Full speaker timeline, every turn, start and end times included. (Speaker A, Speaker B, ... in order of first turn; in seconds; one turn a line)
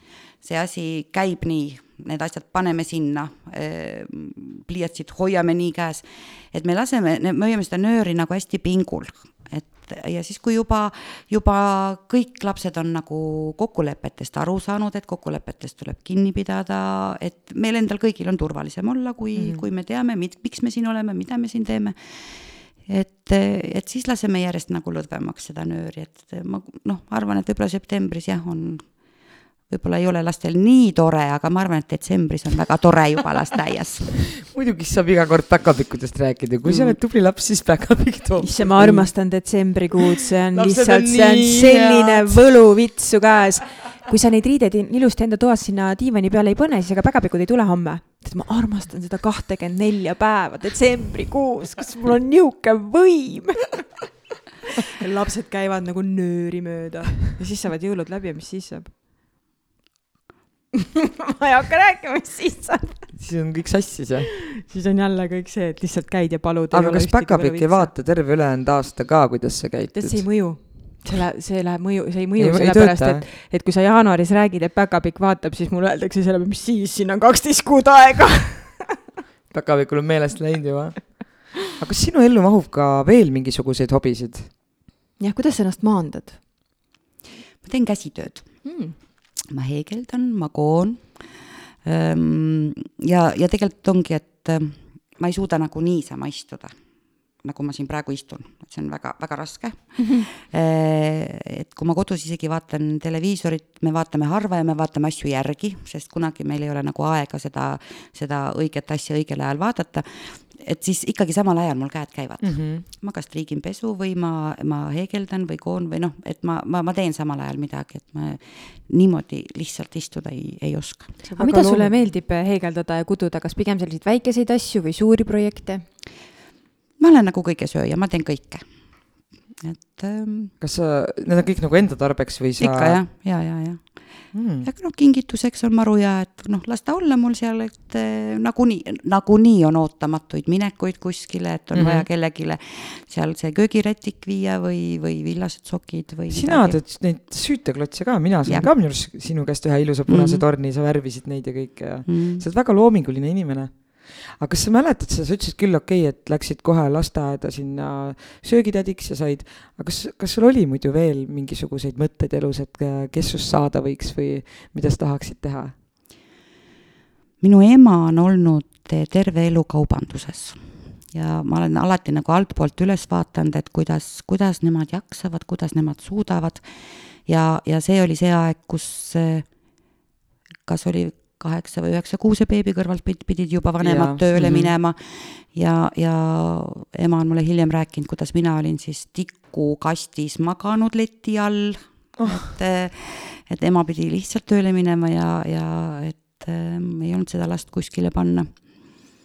Speaker A: 0.4-29.1
Speaker B: 19.4-19.6
Speaker A: 29.7-34.3
Speaker B: 34.5-39.1
Speaker A: 36.7-36.9
Speaker C: 38.4-54.0
Speaker B: 40.5-42.4
Speaker C: 55.0-58.9
Speaker C: 60.7-63.1
Speaker B: 63.1-64.3
Speaker C: 64.6-67.9
Speaker B: 66.7-70.3
Speaker C: 69.9-79.0
Speaker B: 72.4-73.2
Speaker B: 79.5-84.5
Speaker C: 85.2-86.4
Speaker A: 87.6-88.6
Speaker C: 88.6-88.9
Speaker A: 89.4-96.7
Speaker A: 97.4-121.2
Speaker C: 100.0-100.3
Speaker B: 112.4-112.8
Speaker B: 121.2-121.9
Speaker C: 121.4-125.8
Speaker A: 127.0-128.7
Speaker A: 129.5-130.5
Speaker B: 130.6-133.0
Speaker A: 132.6-146.8
Speaker B: 134.3-134.7
Speaker B: 141.7-142.1
Speaker B: 146.3-165.7
Speaker A: 148.4-148.7
Speaker A: 150.1-150.4
Speaker A: 152.1-152.4
Speaker A: 167.4-179.5
Speaker A: 180.7-198.6
Speaker B: 183.8-184.7
Speaker B: 192.2-192.5